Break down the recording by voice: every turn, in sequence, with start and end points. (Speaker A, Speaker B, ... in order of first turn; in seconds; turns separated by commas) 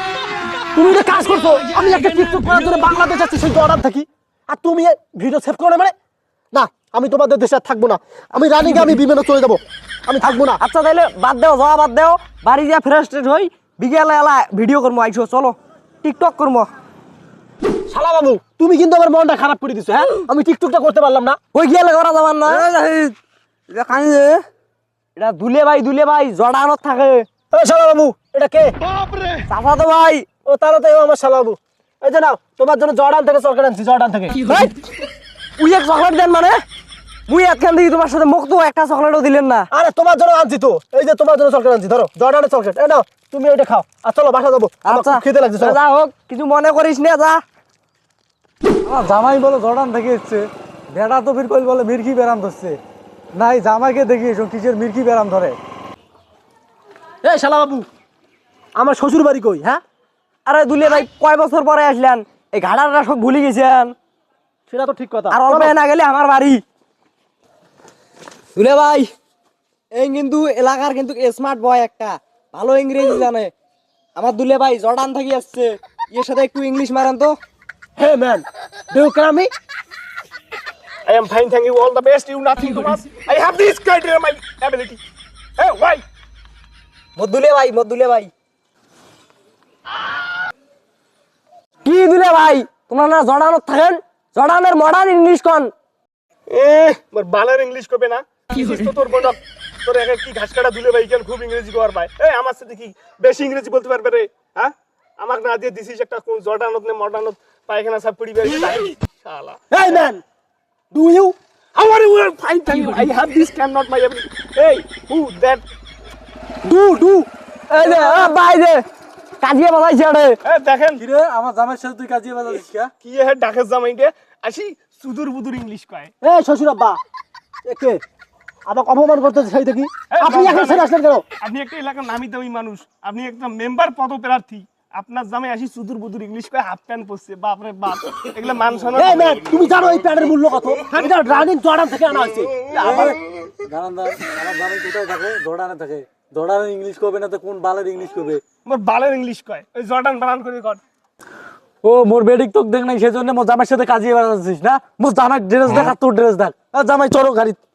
Speaker A: 0.8-5.9, Speaker A: 6.5-10.6, Speaker B: 10.2-16.7, Speaker A: 17.9-21.4, Speaker B: 21.5-22.7, Speaker C: 22.6-23.1, Speaker C: 23.7-24.4, Speaker B: 25.2-27.3, Speaker A: 27.5-28.8, Speaker B: 29.5-30.2, Speaker A: 30.5-34.4, Speaker B: 34.4-34.7, Speaker B: 35.6-36.6, Speaker B: 37.3-39.7, Speaker A: 39.7-45.8, Speaker B: 44.9-47.4, Speaker C: 48.9-52.8, Speaker C: 53.3-55.6, Speaker A: 57.2-57.9, Speaker A: 58.8-59.8, Speaker B: 60.5-64.0, Speaker A: 64.7-65.7, Speaker B: 65.3-66.6, Speaker B: 68.5-69.1, Speaker B: 69.9-73.5, Speaker B: 74.2-77.4, Speaker A: 78.0-79.5, Speaker D: 81.1-85.0, Speaker D: 85.6-86.0, Speaker B: 87.2-88.3, Speaker B: 91.8-95.7, Speaker D: 96.5-109.6, Speaker A: 109.7-110.2, Speaker A: 110.9-111.3, Speaker D: 111.8-115.6, Speaker A: 116.6-117.3, Speaker B: 117.7-118.8, Speaker B: 119.4-120.4, Speaker D: 120.5-121.0, Speaker C: 121.0-122.9, Speaker D: 123.0-126.1, Speaker A: 126.2-127.0, Speaker A: 127.6-128.0, Speaker A: 128.7-131.2, Speaker D: 130.1-130.9, Speaker D: 131.4-139.4, Speaker A: 139.0-143.2, Speaker C: 142.8-148.4, Speaker D: 148.7-150.8, Speaker C: 151.8-157.6